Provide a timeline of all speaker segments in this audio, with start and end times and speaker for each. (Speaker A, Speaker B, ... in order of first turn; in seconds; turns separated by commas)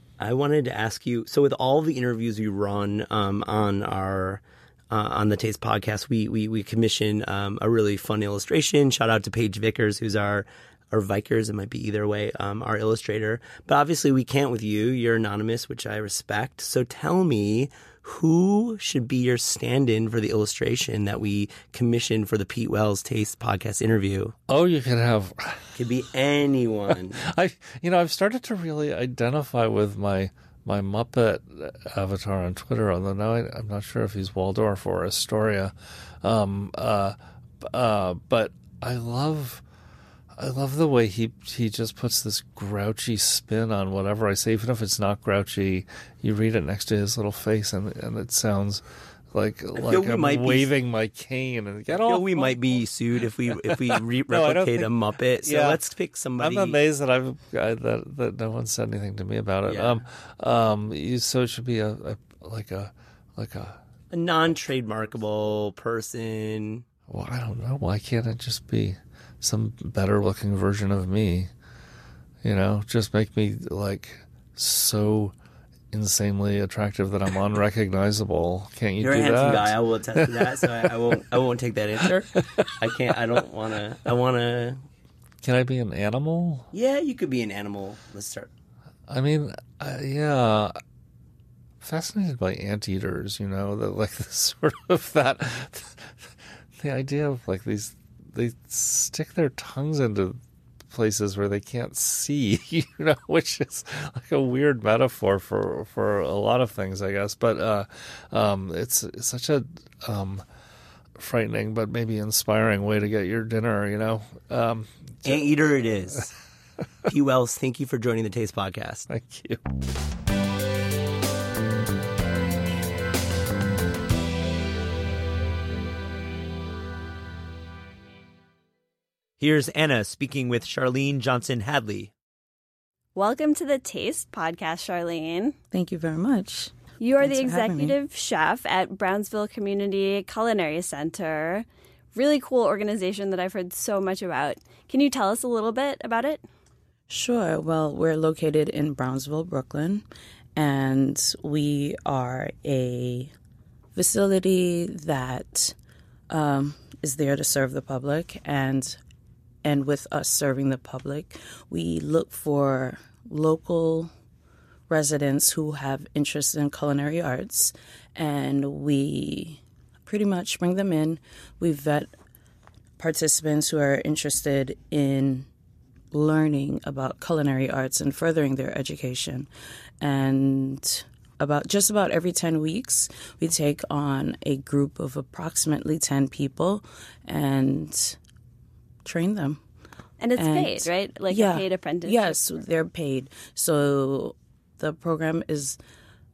Speaker A: 0.2-24.4, Speaker B: 24.5-25.8, Speaker A: 25.8-27.3, Speaker B: 26.9-39.6, Speaker B: 40.4-52.6, Speaker A: 49.8-50.7, Speaker A: 51.9-56.8, Speaker B: 53.6-55.8, Speaker B: 56.4-63.8, Speaker A: 59.7-60.0, Speaker A: 64.1-66.8, Speaker B: 67.1-71.5, Speaker B: 72.4-75.3, Speaker B: 75.9-81.0, Speaker A: 79.0-84.9, Speaker B: 82.3-82.7, Speaker B: 85.4-86.7, Speaker A: 86.7-88.5, Speaker B: 89.1-90.8, Speaker B: 91.8-110.5, Speaker B: 111.2-115.5, Speaker A: 115.2-116.3, Speaker A: 117.1-119.1, Speaker B: 119.1-119.6, Speaker C: 129.4-132.1, Speaker D: 133.2-135.6, Speaker E: 135.7-138.0, Speaker D: 137.0-146.4, Speaker E: 147.1-150.0, Speaker E: 150.6-153.3, Speaker E: 153.9-155.8, Speaker E: 156.3-159.0, Speaker E: 159.6-164.1, Speaker E: 164.9-172.1, Speaker E: 173.0-175.5, Speaker E: 176.1-179.5, Speaker E: 180.0-188.2, Speaker E: 189.1-189.6, Speaker D: 190.2-192.5, Speaker E: 190.4-195.8